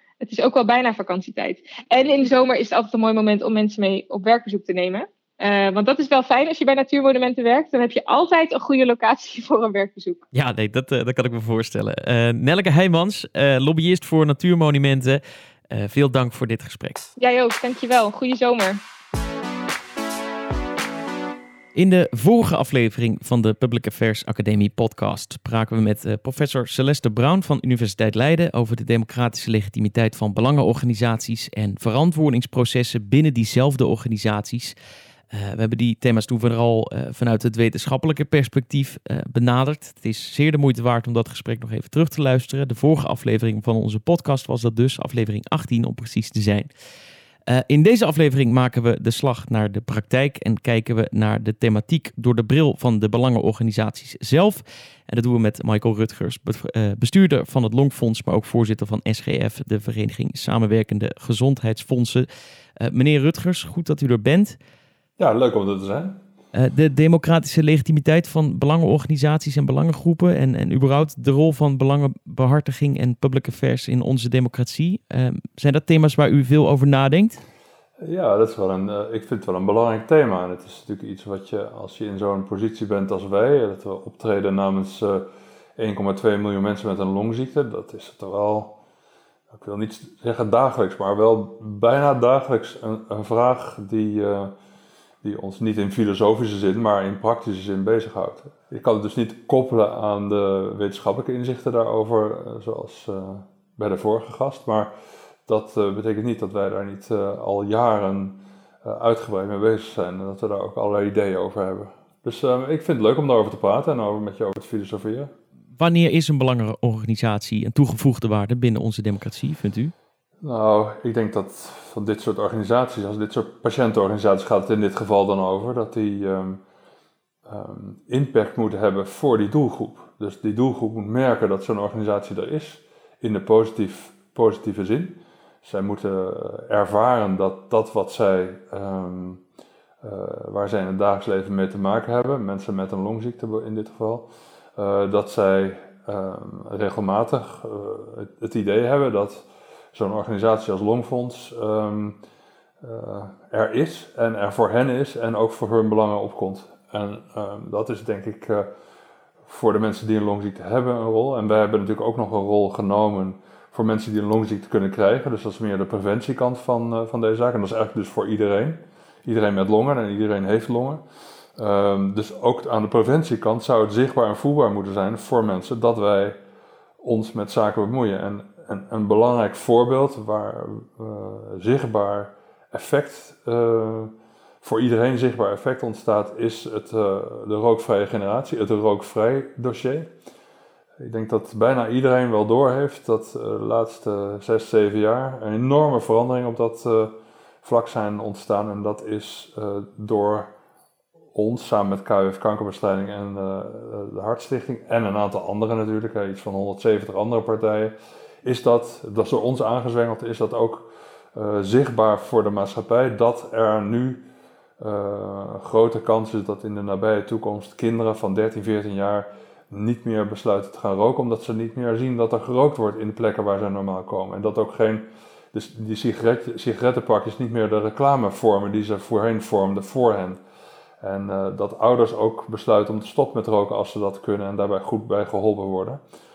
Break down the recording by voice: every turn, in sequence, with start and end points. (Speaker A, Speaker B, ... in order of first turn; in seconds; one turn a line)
Speaker A: 0.2-10.2
Speaker B: 10.3-17.0
Speaker A: 17.2-18.8
Speaker B: 21.8-34.8
Speaker B: 35.3-46.7
Speaker B: 47.5-62.3
Speaker B: 62.8-64.6
Speaker C: 65.2-66.2
Speaker B: 66.5-77.4
Speaker C: 78.0-85.2
Speaker C: 85.8-88.8
Speaker C: 89.5-94.5
Speaker C: 95.2-104.9
Speaker C: 105.5-115.3
Speaker B: 115.8-119.9
Speaker C: 120.4-126.6
Speaker C: 127.5-139.4
Speaker C: 140.0-152.2
Speaker C: 152.8-158.7
Speaker C: 159.5-171.0
Speaker C: 171.6-176.4
Speaker C: 177.0-190.1
Speaker C: 191.0-200.5
Speaker C: 201.3-214.2
Speaker C: 214.8-230.4
Speaker C: 231.0-236.0